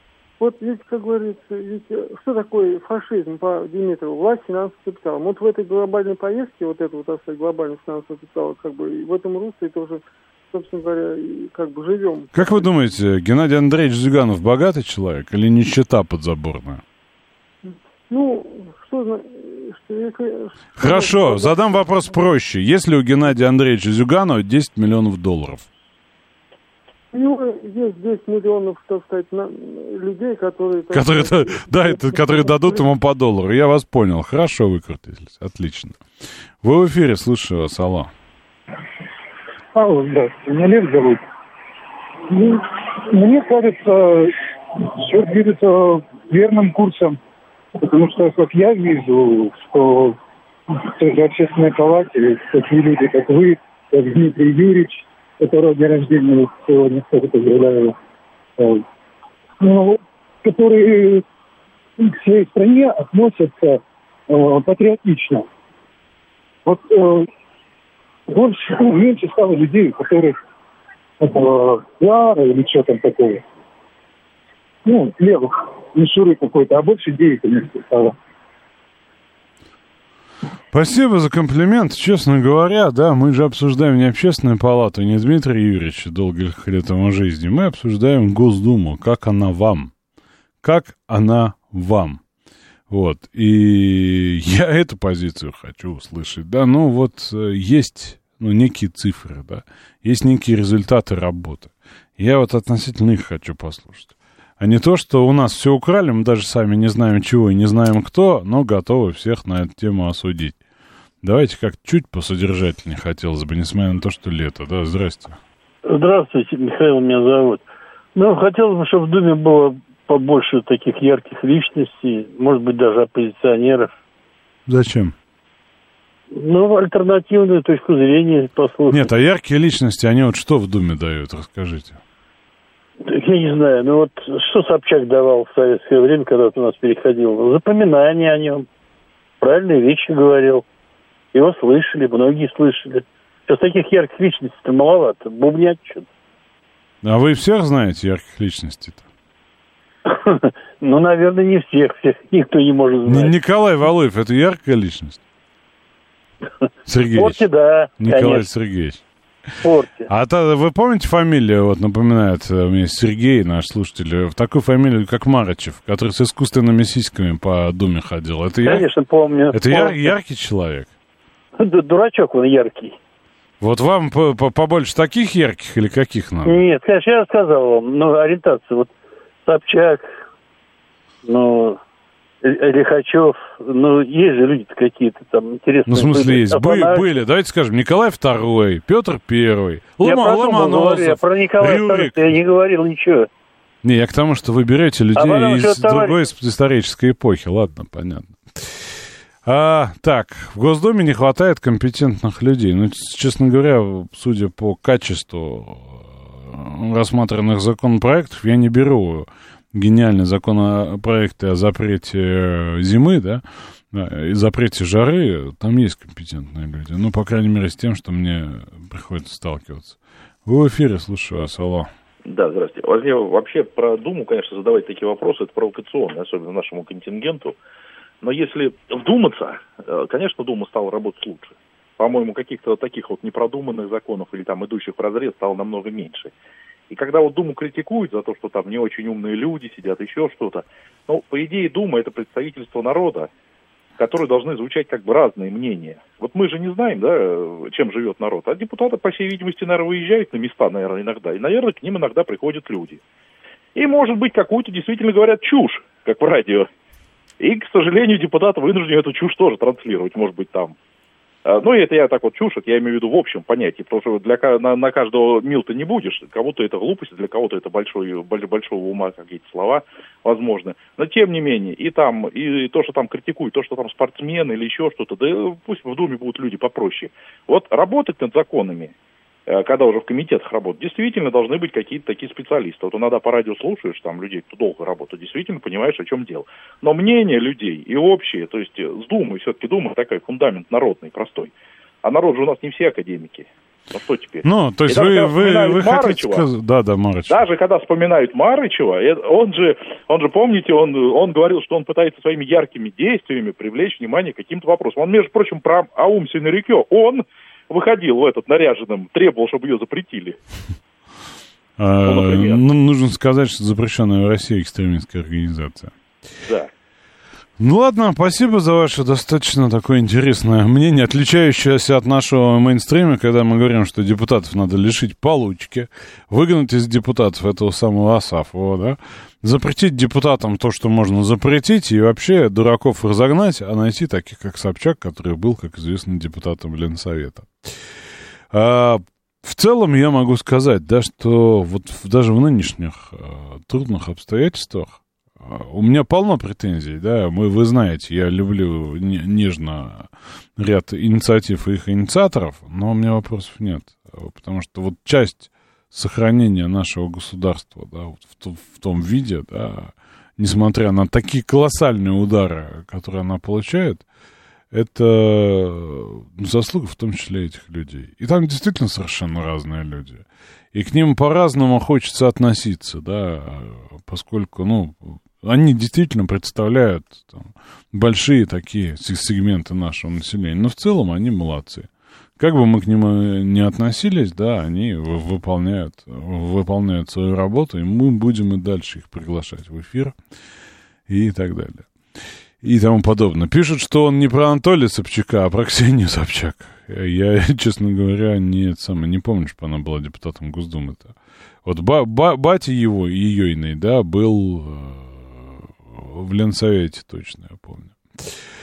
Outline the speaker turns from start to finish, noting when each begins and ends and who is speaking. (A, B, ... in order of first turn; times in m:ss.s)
0:00.4-0:12.6 A
0:12.3-0:16.8 B
0:17.6-0:21.8 A
0:20.8-0:25.6 B
0:27.1-0:32.8 A
0:30.9-0:36.0 B
0:36.6-0:38.1 B
0:39.7-0:41.2 C
0:42.3-0:47.2 C
0:47.8-0:50.2 C
0:50.7-0:58.0 C
0:58.6-0:58.8 C
0:59.6-1:01.2 C
1:02.0-1:05.5 C
1:06.6-1:07.3 C
1:08.3-1:10.4 C
1:11.2-1:13.4 C
1:14.8-1:18.1 C
1:20.7-1:29.9 B
1:30.6-1:32.2 B
1:32.9-1:50.6 B
1:51.2-1:55.4 B
1:55.9-1:57.6 D
1:58.1-2:03.9 D
2:04.7-2:05.1 B
2:06.3-2:09.1 D
2:08.9-2:12.0 B
2:13.0-2:18.6 D
2:19.4-2:20.6 D
2:21.3-2:26.0 D
2:27.0-2:29.0 B
2:30.0-2:33.4 D
2:33.0-2:35.2 B
2:36.8-2:37.4 B
2:37.1-2:38.5 D
2:38.0-2:39.0 B
2:39.6-2:40.1 D
2:40.1-2:48.9 B
2:48.6-2:50.2 D
2:49.5-2:50.9 B
2:51.6-2:53.0 D
2:53.6-2:56.6 B
2:56.4-2:58.9 D
2:59.4-3:00.1 D
3:01.2-3:01.8 D
3:02.4-3:07.1 D
3:05.9-3:12.3 B
3:10.0-3:13.3 D
3:13.8-3:41.9 B
3:15.2-3:16.2 D
3:42.2-3:47.6 E
3:48.2-3:56.3 E
3:56.9-4:03.3 E
4:04.0-4:13.0 E
4:13.7-4:16.7 E
4:17.4-4:20.7 E
4:21.4-4:38.9 E
4:39.5-4:51.5 E
4:52.0-4:56.4 E
4:54.4-4:57.4 B
4:57.3-5:10.4 E
5:11.8-5:15.9 B
5:12.0-5:12.6 E
5:16.4-5:16.7 E
5:17.6-5:37.7 B
5:38.5-6:04.0 B
6:04.7-6:21.9 B
6:22.4-6:30.2 B
6:31.1-6:31.9 B
6:32.6-6:41.1 B
6:41.6-6:48.4 B